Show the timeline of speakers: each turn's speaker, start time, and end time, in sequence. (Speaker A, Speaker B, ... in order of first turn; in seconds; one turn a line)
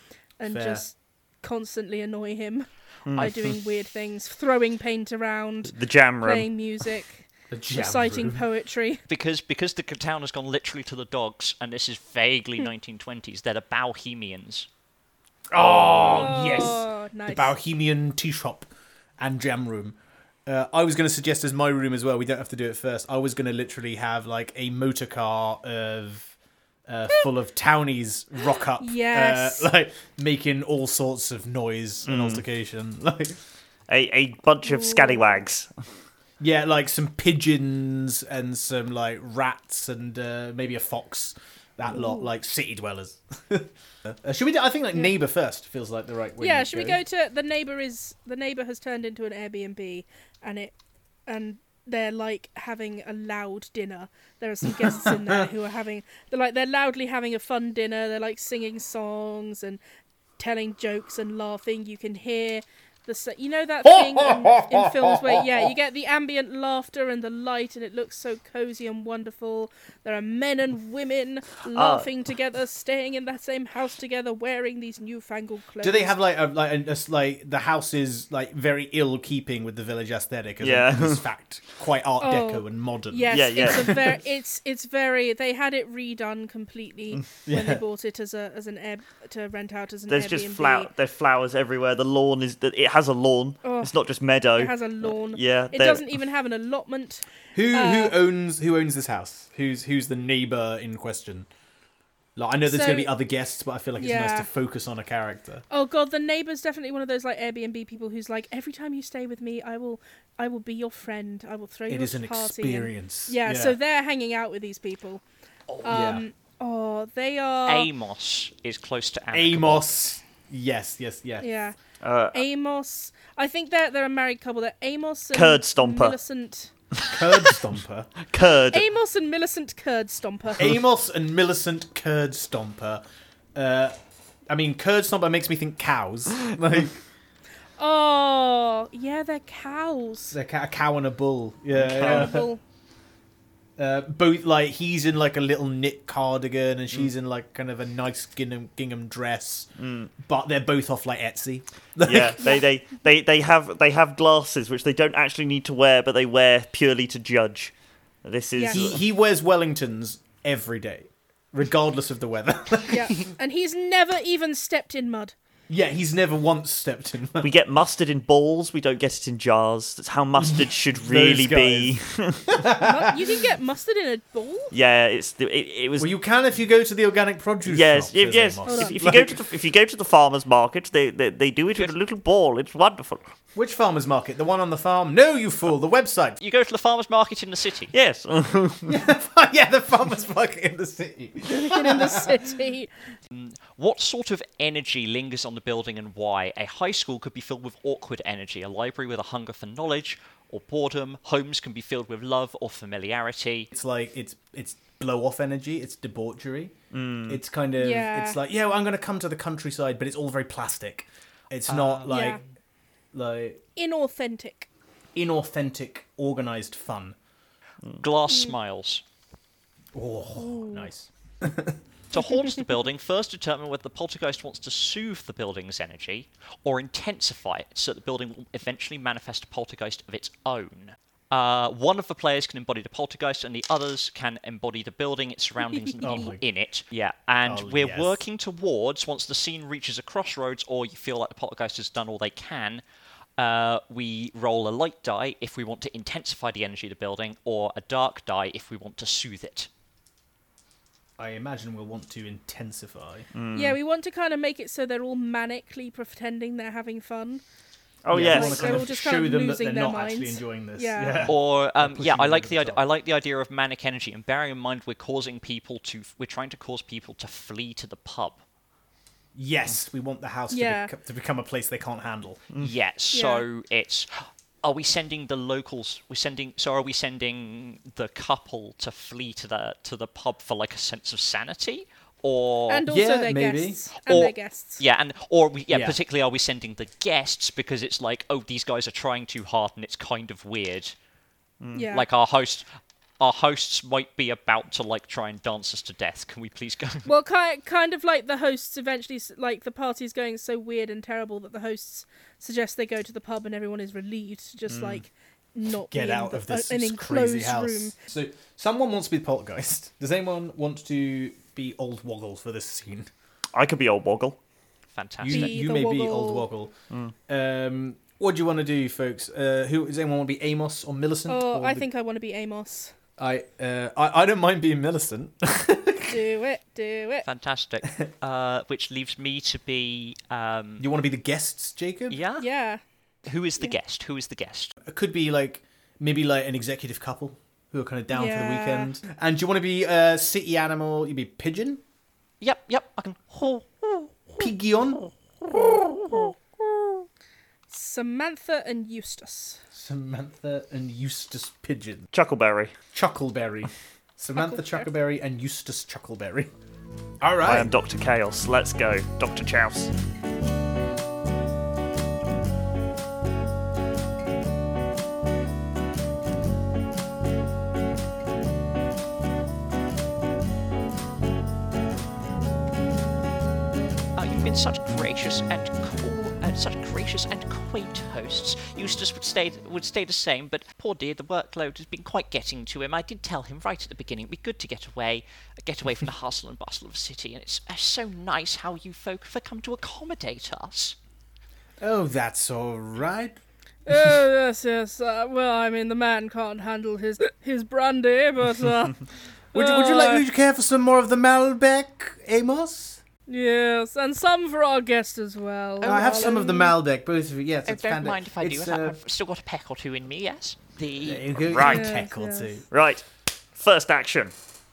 Speaker A: 0.4-9.0
Speaker B: 0.5-0.8
Speaker C: 3.1-3.6
Speaker C: 5.7-6.5
Speaker B: 7.5-8.4
Speaker D: 9.1-14.7
Speaker B: 15.5-26.3
Speaker A: 16.0-17.5
Speaker B: 26.9-33.4
Speaker A: 28.8-29.6
Speaker C: 32.0-32.4
Speaker C: 33.9-35.8
Speaker A: 34.6-35.4
Speaker B: 36.4-47.0
Speaker A: 41.9-42.3
Speaker A: 46.4-50.7
Speaker A: 51.3-59.8
Speaker B: 54.8-55.5
Speaker A: 60.4-76.1
Speaker B: 63.8-65.7
Speaker C: 71.7-72.1
Speaker B: 75.8-84.0
Speaker C: 80.6-81.2
Speaker A: 82.2-90.9
Speaker C: 83.3-84.1
Speaker B: 87.5-87.8
Speaker C: 90.1-96.1
Speaker A: 93.6-93.9
Speaker A: 94.6-98.2
Speaker B: 97.5-101.5
Speaker B: 102.3-105.6
Speaker A: 102.7-103.1
Speaker A: 104.0-104.5
Speaker A: 105.7-115.2
Speaker B: 111.9-113.8
Speaker D: 115.7-116.0
Speaker A: 115.8-117.9
Speaker B: 115.9-116.2
Speaker D: 117.7-119.8
Speaker B: 119.3-121.5
Speaker A: 121.4-121.8
Speaker C: 122.0-122.4
Speaker A: 122.3-126.7
Speaker C: 125.3-126.2
Speaker B: 127.0-128.1
Speaker C: 128.2-128.9
Speaker A: 128.7-130.8
Speaker B: 130.6-133.0
Speaker B: 133.5-133.9
Speaker B: 134.5-137.0
Speaker A: 137.8-140.4
Speaker B: 140.3-142.4
Speaker C: 141.7-142.4
Speaker A: 141.9-142.6
Speaker B: 143.8-152.6
Speaker C: 149.8-150.1
Speaker C: 152.0-157.7
Speaker C: 158.2-159.0
Speaker A: 158.5-158.9
Speaker B: 158.7-163.3
Speaker A: 162.9-165.3
Speaker B: 165.7-167.5
Speaker C: 167.4-172.6
Speaker B: 170.4-171.9
Speaker B: 172.5-173.2
Speaker A: 172.8-174.7
Speaker C: 174.7-176.1
Speaker B: 176.0-179.4
Speaker C: 177.7-183.2
Speaker A: 178.6-179.3
Speaker B: 183.5-186.4
Speaker D: 186.4-187.9
Speaker C: 187.9-188.9
Speaker B: 188.8-192.5
Speaker A: 191.5-192.9
Speaker D: 193.3-203.7
Speaker B: 203.7-206.7
Speaker C: 206.9-207.4
Speaker B: 207.3-212.4
Speaker A: 207.8-208.4
Speaker D: 211.7-212.2
Speaker A: 212.1-212.4
Speaker B: 213.1-213.6
Speaker A: 213.8-214.7
Speaker B: 215.1-217.2
Speaker D: 218.0-219.0
Speaker A: 218.3-218.5
Speaker B: 219.9-221.8
Speaker A: 220.3-220.9
Speaker D: 222.1-242.8
Speaker A: 222.2-222.5
Speaker A: 236.0-236.3
Speaker B: 236.0-236.4
Speaker B: 237.4-238.2
Speaker D: 243.4-249.7
Speaker B: 251.2-253.3
Speaker C: 253.3-253.8
Speaker A: 253.5-257.4
Speaker C: 258.0-258.9
Speaker B: 258.1-262.8
Speaker A: 258.2-261.3
Speaker D: 261.2-268.4
Speaker B: 269.3-272.4
Speaker A: 270.5-270.9
Speaker D: 272.6-282.9
Speaker A: 273.1-273.4
Speaker A: 282.7-284.8
Speaker B: 282.9-283.8
Speaker D: 284.0-290.9
Speaker B: 285.7-286.0
Speaker C: 291.6-291.9
Speaker A: 291.7-292.1
Speaker D: 291.9-292.6
Speaker D: 293.2-297.1
Speaker A: 297.0-307.9
Speaker C: 304.7-305.0
Speaker B: 305.9-313.1
Speaker C: 313.5-314.4
Speaker D: 314.9-315.6
Speaker B: 315.2-316.7
Speaker A: 315.3-316.5
Speaker B: 317.3-321.9
Speaker A: 321.3-322.9
Speaker B: 323.2-326.2
Speaker A: 326.1-327.2
Speaker D: 327.2-330.9
Speaker B: 330.8-332.2
Speaker D: 332.1-332.4
Speaker A: 332.4-332.8
Speaker D: 333.2-334.7
Speaker B: 334.9-341.8
Speaker A: 338.1-338.9
Speaker D: 342.4-344.5
Speaker B: 344.4-345.1
Speaker A: 347.7-349.6
Speaker B: 349.7-352.1
Speaker C: 352.1-352.8
Speaker B: 352.9-356.5
Speaker A: 354.4-354.9
Speaker B: 357.2-357.7
Speaker C: 357.4-359.9
Speaker D: 374.1-390.9
Speaker B: 391.8-393.4
Speaker A: 393.9-400.2
Speaker B: 399.5-403.0
Speaker A: 403.3-406.7
Speaker D: 405.8-406.4
Speaker B: 405.8-409.0
Speaker D: 407.6-411.4
Speaker B: 411.0-412.6
Speaker C: 411.4-411.9
Speaker A: 411.6-412.6
Speaker C: 412.7-414.3